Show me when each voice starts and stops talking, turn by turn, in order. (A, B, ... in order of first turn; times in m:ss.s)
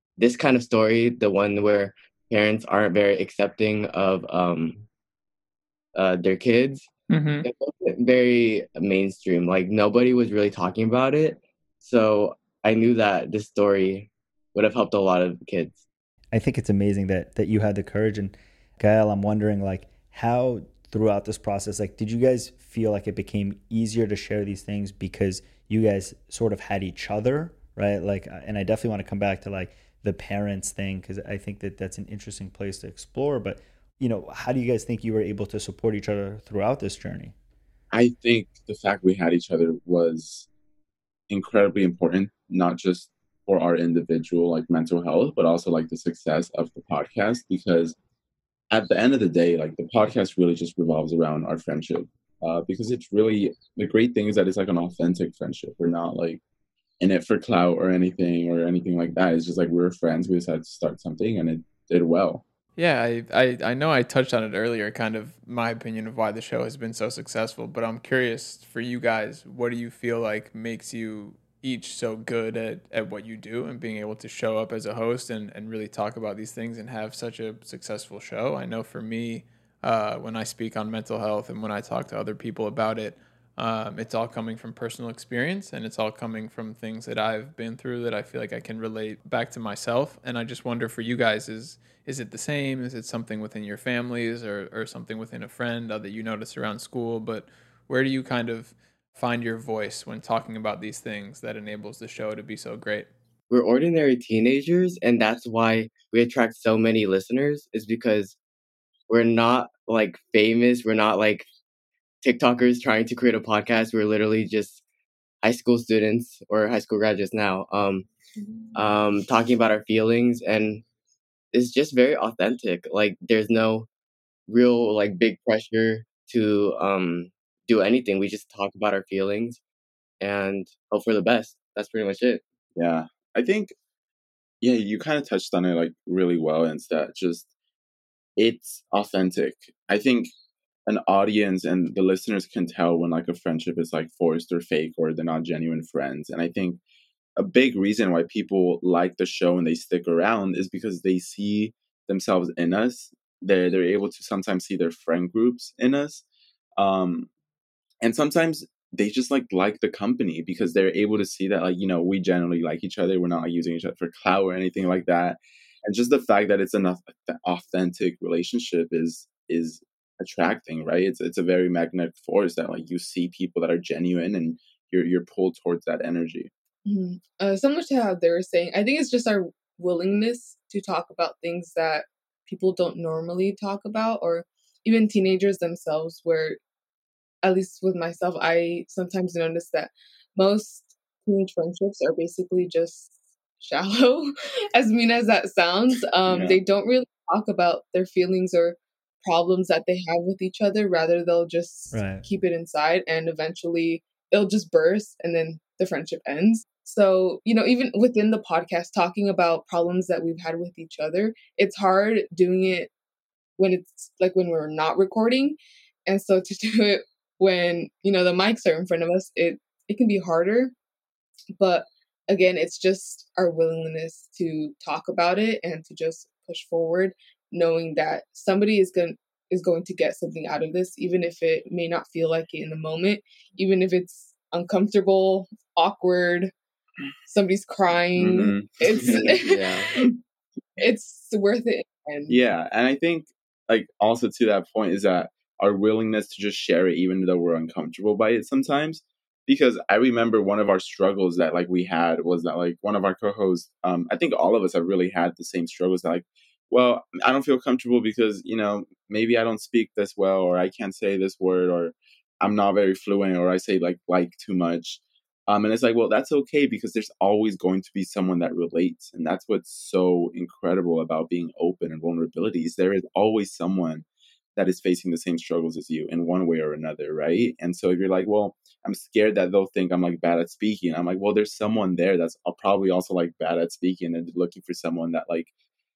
0:00.2-0:04.9 A
0:06.0-0:06.9 A
0:07.1-0:07.5 B
0:07.4-0:15.8 A
0:16.3-0:37.3 C
0:37.9-0:40.5 D
0:41.3-0:48.0 D
0:48.7-0:56.4 D
0:57.0-1:02.4 D
1:02.8-1:43.1 B
1:43.5-1:48.4 A
1:49.1-1:51.5 A
1:52.2-1:54.8 A
1:55.4-1:58.1 A
1:58.7-2:00.8 A
2:01.5-2:03.9 A
2:04.5-2:09.6 A
2:10.2-2:12.4 A
2:12.8-2:13.7 D
2:14.6-2:17.5 D
2:18.4-2:20.3 D
2:20.9-2:26.8 D
2:27.4-2:36.2 D
2:36.8-2:37.3 D
2:38.0-2:56.5 D
2:56.8-3:06.6 E
3:07.4-3:32.9 E
3:16.3-3:16.6 D
3:21.9-3:22.2 C
3:33.6-3:40.7 E
3:41.6-3:56.5 E
3:57.3-4:00.0 E
3:58.2-3:59.3 D
3:59.0-3:59.9 A
4:00.8-4:02.4 E
4:02.3-4:45.5 D